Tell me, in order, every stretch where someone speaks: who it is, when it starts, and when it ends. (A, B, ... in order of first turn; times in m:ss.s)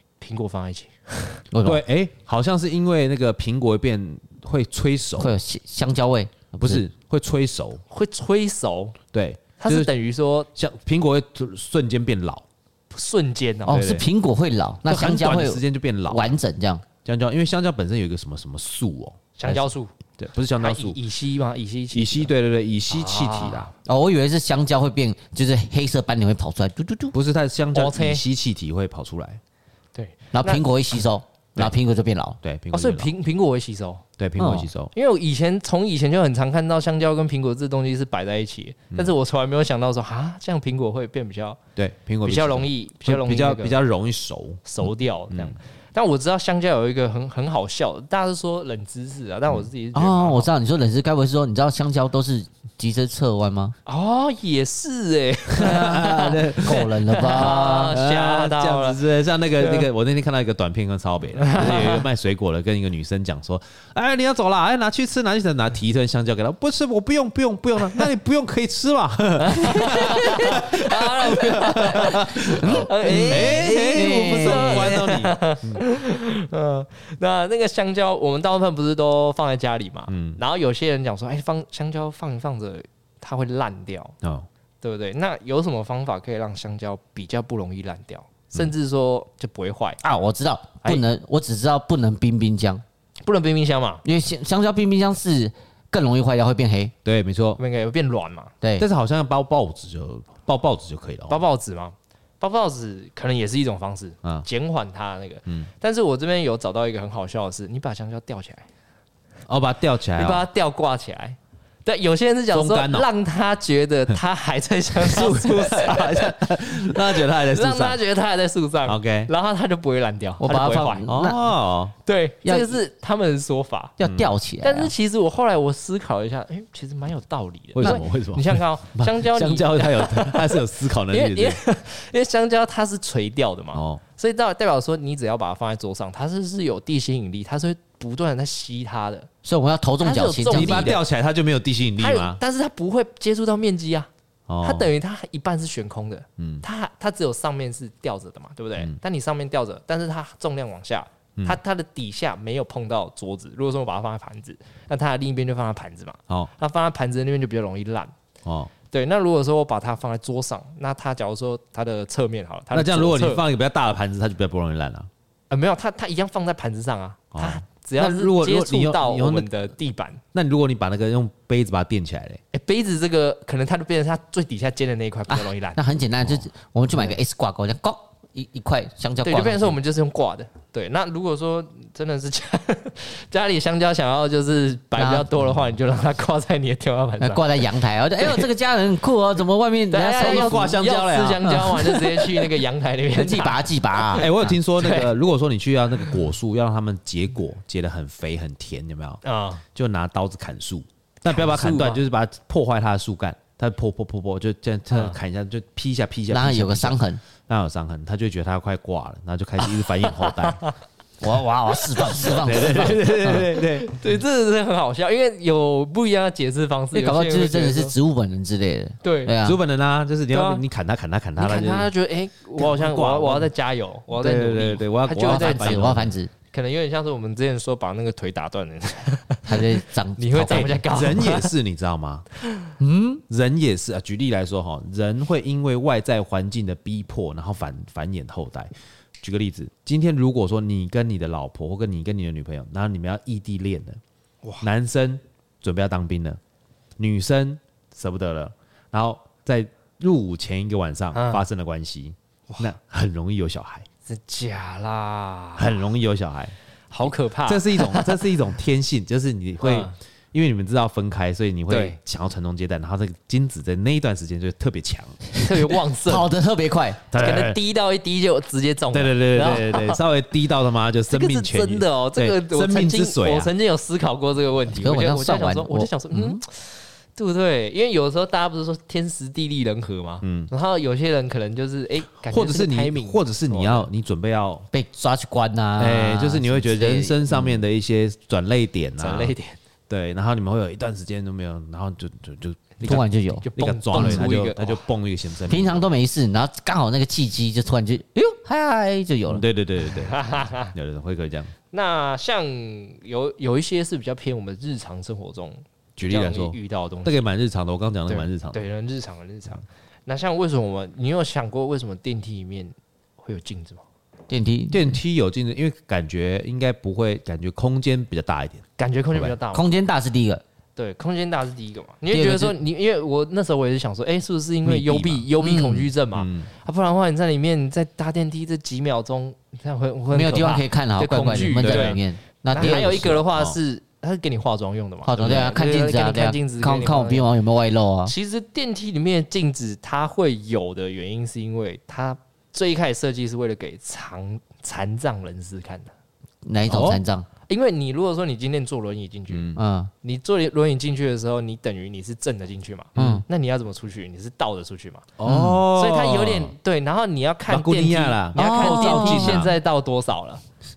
0:00.2-0:01.4 A
0:01.5-0:01.8 B
0:01.6-0:05.3 C
0:05.2-0:06.8 B
0:06.6-0:07.8 C
0:07.9-0:09.0 A
0:09.1-0:09.9 C
0:09.6-0:10.5 A
0:10.6-0:12.4 C
0:12.9-0:14.0 A
0:13.7-0:16.8 B
0:13.7-0:14.1 C
0:14.8-0:16.4 C
0:17.0-0:19.6 C
0:19.4-0:20.0 A
0:20.2-0:21.0 C
0:20.6-0:22.3 A
0:21.9-0:23.7 C
0:22.9-0:23.7 A
0:23.9-0:27.1 B
0:27.1-0:29.4 C
0:27.7-0:28.2 A
0:30.0-0:31.0 A
0:30.3-0:32.4 B
0:32.4-0:33.1 C
0:32.7-0:34.0 A
0:34.2-0:34.9 C
0:34.4-0:34.7 B
0:34.9-0:41.6 A
0:41.8-0:44.6 C
0:42.2-0:43.8 A
0:44.6-0:50.5 A
0:49.9-0:53.8 B
0:53.9-0:59.0 A
0:55.5-1:15.8 C
0:56.6-0:58.0 B
0:59.6-0:59.9 A
1:01.4-1:02.0 A
1:09.4-1:24.2 A
1:12.6-1:15.0 B
1:20.1-1:20.4 C
1:24.2-1:24.5 C
1:24.8-1:30.0 A
1:30.0-1:32.8 B
1:33.2-1:34.0 A
1:34.0-1:36.9 B
1:37.0-1:37.6 C
1:37.6-1:38.6 A
1:38.6-1:38.9 B
1:38.8-1:41.4 C
1:41.3-1:48.7 A
1:49.5-1:50.5 C
1:50.2-1:56.4 A
1:52.5-1:53.1 C
1:55.0-1:58.0 C
1:57.2-2:01.1 A
1:58.8-1:59.3 C
2:00.4-2:01.6 B
2:01.1-2:01.9 C
2:02.0-2:04.0 A
2:02.4-2:02.8 B
2:04.0-2:04.9 B
2:04.0-2:04.3 C
2:04.6-2:19.3 A
2:07.7-2:11.6 C
2:13.7-2:14.0 C
2:19.4-2:21.0 B
2:20.0-2:21.0 A
2:20.5-2:22.4 C
2:22.0-2:24.1 A
2:24.5-2:24.9 C
2:24.6-2:38.1 A
2:26.4-2:26.6 C
2:38.4-2:38.7 C
2:38.9-2:43.4 A
2:42.7-2:45.1 C
2:45.5-2:50.2 A
2:47.3-2:49.5 C
2:50.3-2:52.4 C
2:52.5-2:55.8 A
2:55.3-2:59.8 B
2:59.2-3:07.7 A
3:05.0-3:05.3 B
3:07.2-3:10.8 B
3:08.2-3:08.5 A
3:09.9-3:15.1 A
3:10.2-3:11.5 C
3:11.4-3:12.6 B
3:13.1-3:14.6 B
3:14.2-3:19.2 C
3:19.2-3:19.6 A
3:19.7-3:30.6 C
3:21.2-3:22.0 A
3:24.9-3:25.2 A
3:26.3-3:27.2 B
3:30.2-3:30.7 A
3:31.2-3:33.5 B
3:32.0-3:33.1 A
3:32.3-3:33.9 C
3:33.6-3:37.9 A
3:36.9-3:39.6 B
3:39.0-3:39.3 A
3:39.4-3:41.9 C
3:40.3-3:40.6 A
3:41.4-3:51.5 A
3:42.6-3:43.5 C
3:44.1-3:46.2 C
3:45.2-3:46.3 B
3:49.5-3:50.8 B
3:50.5-3:52.3 C
3:52.8-3:53.2 B
3:53.3-4:04.0 C
4:04.6-4:06.4 C
4:07.0-4:13.9 C
4:11.1-4:11.4 A
4:14.1-4:15.8 A
4:15.6-4:16.6 C
4:16.9-4:18.2 A
4:17.4-4:25.3 C
4:19.6-4:20.0 A
4:21.7-4:22.0 A
4:25.4-4:26.3 A
4:26.0-4:27.1 B
4:27.1-4:27.6 C
4:27.2-4:30.0 A
4:28.9-4:33.5 C
4:31.1-4:43.9 A
4:34.7-4:36.4 B
4:40.2-4:40.5 C
4:42.2-4:44.7 C
4:44.7-4:47.6 B
4:45.8-4:49.3 C
4:49.0-4:49.6 A
4:49.9-4:55.9 C
4:52.8-4:54.3 B
4:52.8-4:54.8 A
4:55.5-4:59.4 B
4:59.3-5:01.5 C
5:00.0-5:00.7 A
5:01.7-5:07.2 A
5:06.0-5:08.6 C
5:08.1-5:13.8 A
5:14.3-5:15.0 B
5:14.7-5:19.4 C
5:18.8-5:19.7 A
5:19.5-5:20.4 B
5:20.8-5:32.0 A
5:22.1-5:22.6 B
5:24.6-5:25.3 C
5:25.4-5:25.9 B
5:26.1-5:26.5 C
5:30.1-5:33.2 B
5:31.4-5:32.0 C
5:32.5-5:37.3 A
5:32.6-5:33.6 C
5:35.0-5:38.1 B
5:38.1-5:45.9 A
5:46.4-5:47.3 B
5:46.7-5:47.0 C
5:47.5-5:55.1 A
5:49.3-5:49.6 C
5:49.6-5:49.9 B
5:53.0-5:53.2 C
5:53.0-5:53.2 B
5:55.2-5:56.6 C
5:55.2-5:55.6 B
5:55.7-6:00.4 A
5:57.5-5:59.5 C
5:58.4-5:59.5 B